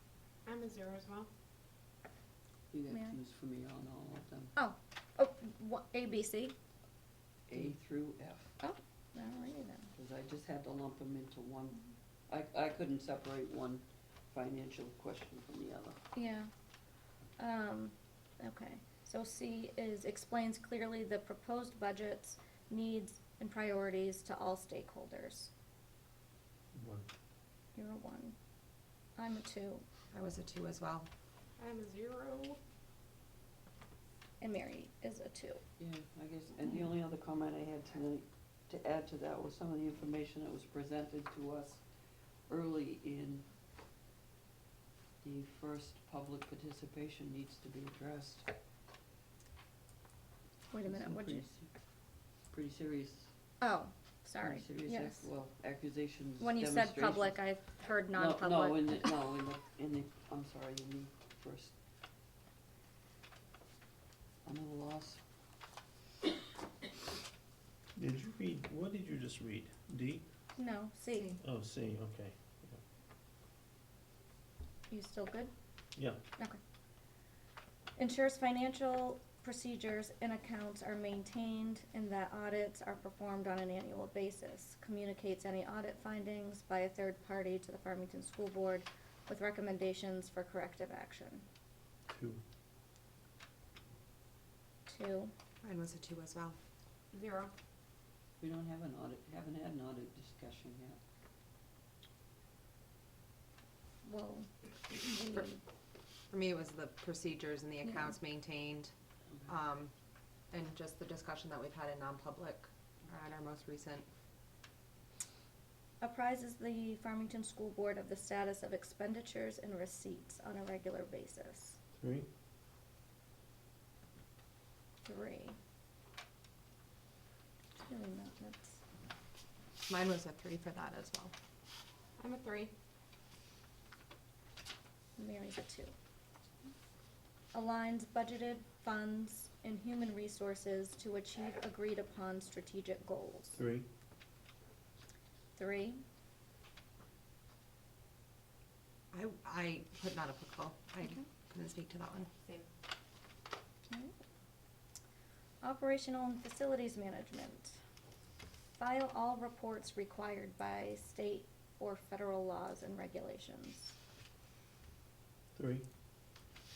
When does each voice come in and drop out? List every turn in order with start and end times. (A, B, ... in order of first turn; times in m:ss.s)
0:00.5-0:01.3 A
0:02.7-0:04.5 B
0:02.9-0:03.2 C
0:04.6-0:06.6 C
0:07.5-0:08.5 B
0:08.6-0:09.9 C
0:10.0-0:16.0 B
0:16.1-0:16.5 C
0:17.4-0:25.5 C
0:26.7-0:27.1 D
0:27.8-0:28.4 C
0:29.2-0:29.9 C
0:30.1-0:31.1 E
0:31.6-0:32.6 A
0:34.4-0:35.6 C
0:35.8-0:41.8 B
0:42.5-0:43.4 B
0:45.2-0:48.5 B
0:50.7-0:51.4 C
0:50.9-0:51.7 B
0:52.5-0:53.3 B
0:53.6-0:55.3 C
0:54.4-0:57.5 B
0:56.4-0:59.1 C
0:58.1-1:01.7 B
1:04.4-1:05.2 B
1:08.0-1:10.2 D
1:10.6-1:11.4 C
1:11.4-1:12.8 D
1:14.9-1:15.5 C
1:18.0-1:31.5 C
1:32.1-1:32.4 D
1:34.9-1:35.3 C
1:35.6-1:36.6 E
1:37.1-1:37.5 A
1:38.4-1:41.0 B
1:44.0-1:45.6 C
1:46.3-1:48.9 E
1:47.8-1:48.2 C
1:49.5-1:49.9 E
1:50.5-1:54.1 E
1:56.0-2:01.8 C
2:02.0-2:02.3 D
2:05.0-2:05.6 C
2:07.8-2:08.8 C
2:09.9-2:11.3 E
2:12.2-2:12.7 A
2:15.2-2:15.9 C
2:17.5-2:23.6 C
2:23.6-2:23.9 D
2:25.6-2:26.0 C
2:29.1-2:32.3 E
2:33.9-2:34.1 C
2:35.6-2:37.8 C
2:38.8-2:44.0 C
2:45.6-2:45.8 D